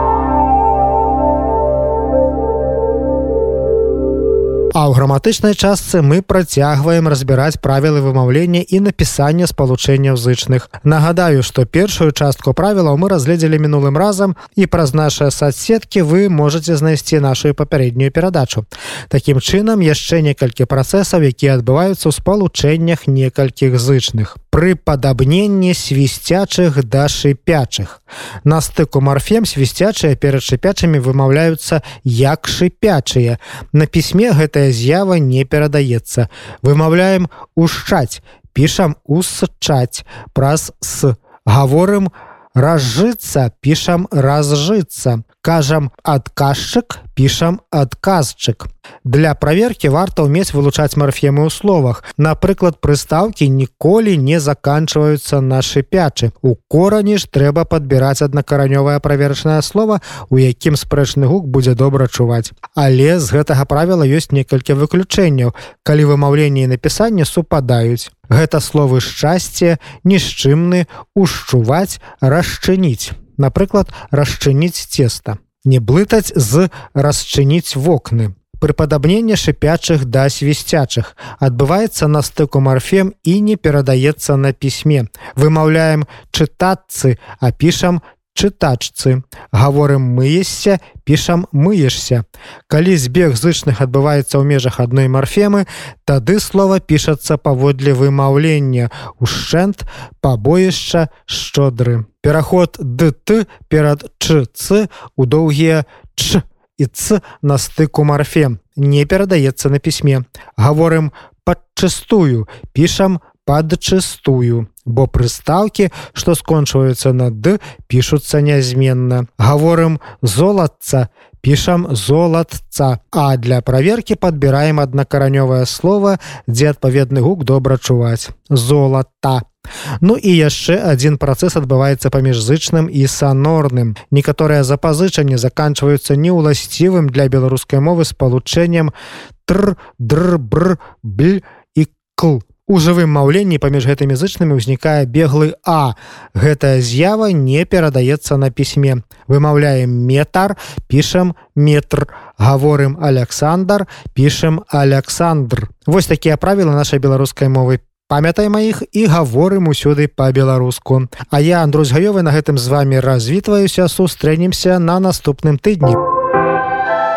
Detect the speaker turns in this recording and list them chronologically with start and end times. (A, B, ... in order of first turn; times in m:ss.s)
0:04.7-2:09.4 A
2:10.0-2:18.9 A
2:19.5-2:46.0 A